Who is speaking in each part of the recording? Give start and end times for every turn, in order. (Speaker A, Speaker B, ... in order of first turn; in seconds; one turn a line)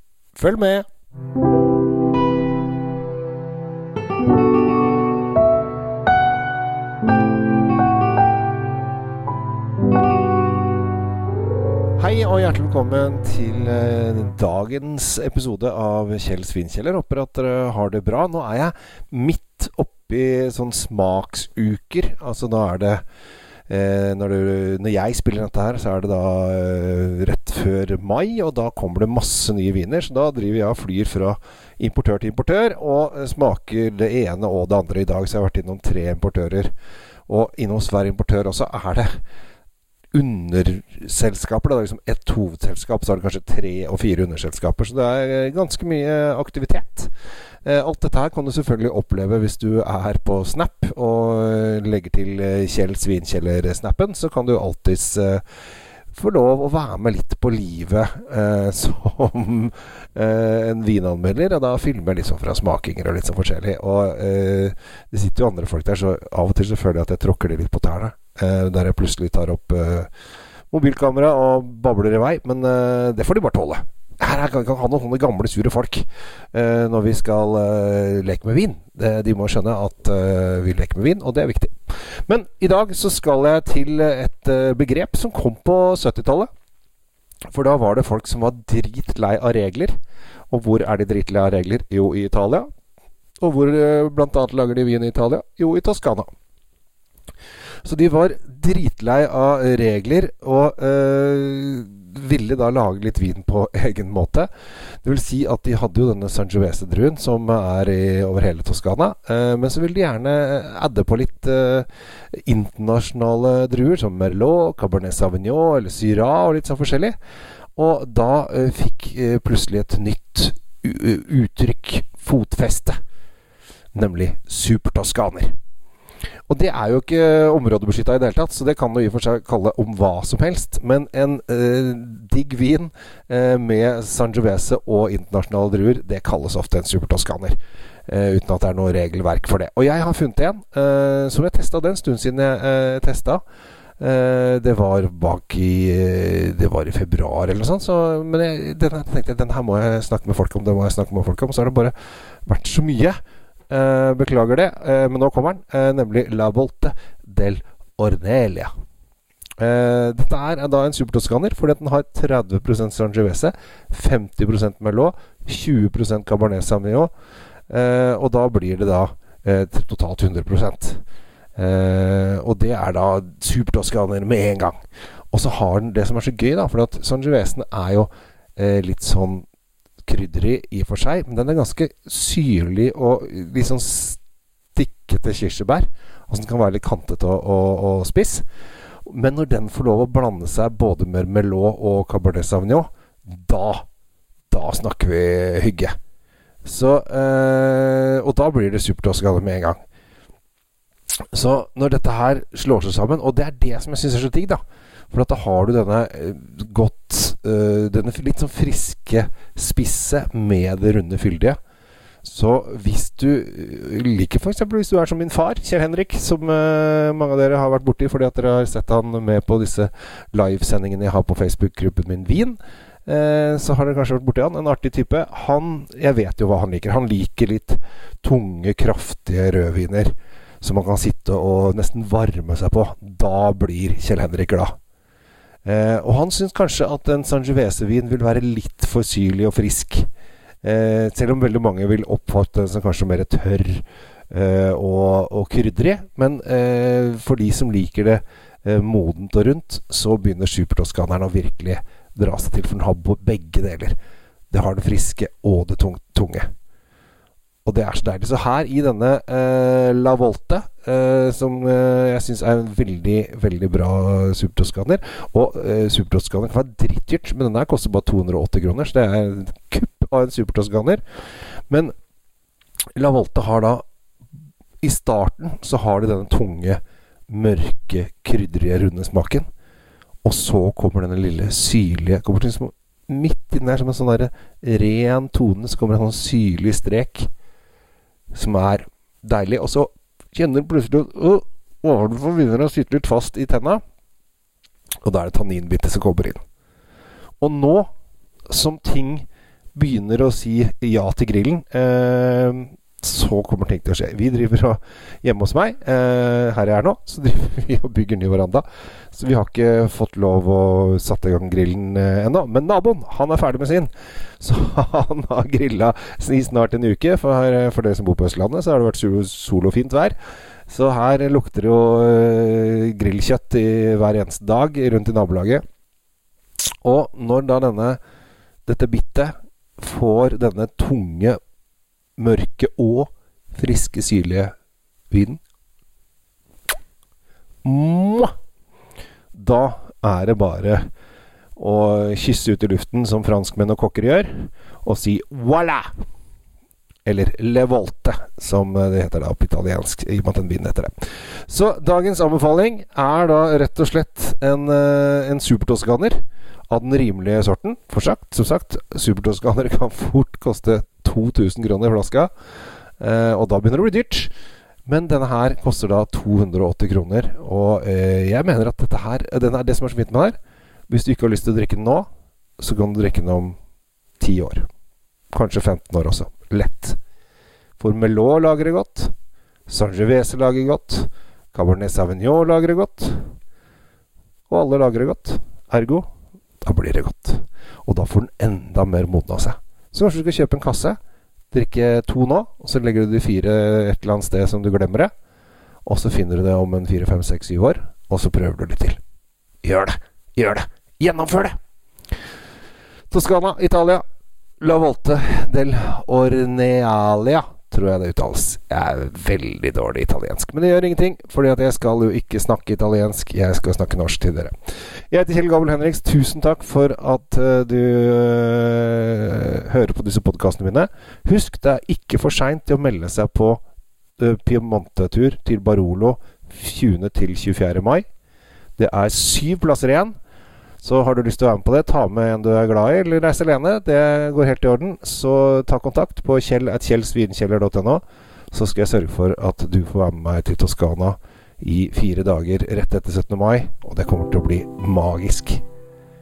Speaker A: 0.3-0.8
Speaker A: 12.0-23.0
Speaker A: 23.7-36.7
Speaker A: 37.3-39.1
Speaker A: 40.1-47.1
Speaker A: 47.6-55.4
Speaker A: 56.1-70.1
Speaker A: 70.7-81.7
Speaker A: 82.3-86.5
Speaker A: 87.5-89.9
Speaker A: 90.5-92.7
Speaker A: 93.4-96.3
Speaker A: 97.8-104.5
Speaker A: 105.0-117.1
Speaker A: 117.8-123.0
Speaker A: 123.9-125.5
Speaker A: 126.5-143.4
Speaker A: 144.0-151.9
Speaker A: 152.4-153.2
Speaker A: 153.7-158.7
Speaker A: 159.6-167.1
Speaker A: 167.7-171.0
Speaker A: 171.6-174.8
Speaker A: 175.3-179.4
Speaker A: 180.0-184.2
Speaker A: 184.7-188.4
Speaker A: 189.1-193.8
Speaker A: 194.5-195.9
Speaker A: 196.6-199.8
Speaker A: 201.3-211.6
Speaker A: 212.2-234.7
Speaker A: 235.6-240.1
Speaker A: 240.6-253.9
Speaker A: 254.5-256.5
Speaker A: 257.6-271.0
Speaker A: 272.9-273.8
Speaker A: 274.8-279.5
Speaker A: 280.2-287.3
Speaker A: 288.3-293.8
Speaker A: 295.0-296.4
Speaker A: 297.4-297.9
Speaker A: 298.5-320.1
Speaker A: 320.7-325.6
Speaker A: 326.8-328.0
Speaker A: 328.6-331.4
Speaker A: 332.2-334.5
Speaker A: 335.1-335.4
Speaker A: 337.6-338.3
Speaker A: 339.3-340.8
Speaker A: 341.6-345.9
Speaker A: 347.0-350.9
Speaker A: 351.5-362.3
Speaker A: 363.0-364.3
Speaker A: 364.9-370.4
Speaker A: 370.9-372.1
Speaker A: 372.6-373.6
Speaker A: 374.2-374.6
Speaker A: 375.3-377.0
Speaker A: 377.8-379.1
Speaker A: 379.7-383.2
Speaker A: 384.5-386.1
Speaker A: 386.6-391.0
Speaker A: 391.5-395.1
Speaker A: 395.9-399.0
Speaker A: 399.6-401.6
Speaker A: 403.1-404.0
Speaker A: 404.6-414.5
Speaker A: 415.1-423.6
Speaker A: 424.2-428.1
Speaker A: 428.8-430.1
Speaker A: 430.8-445.6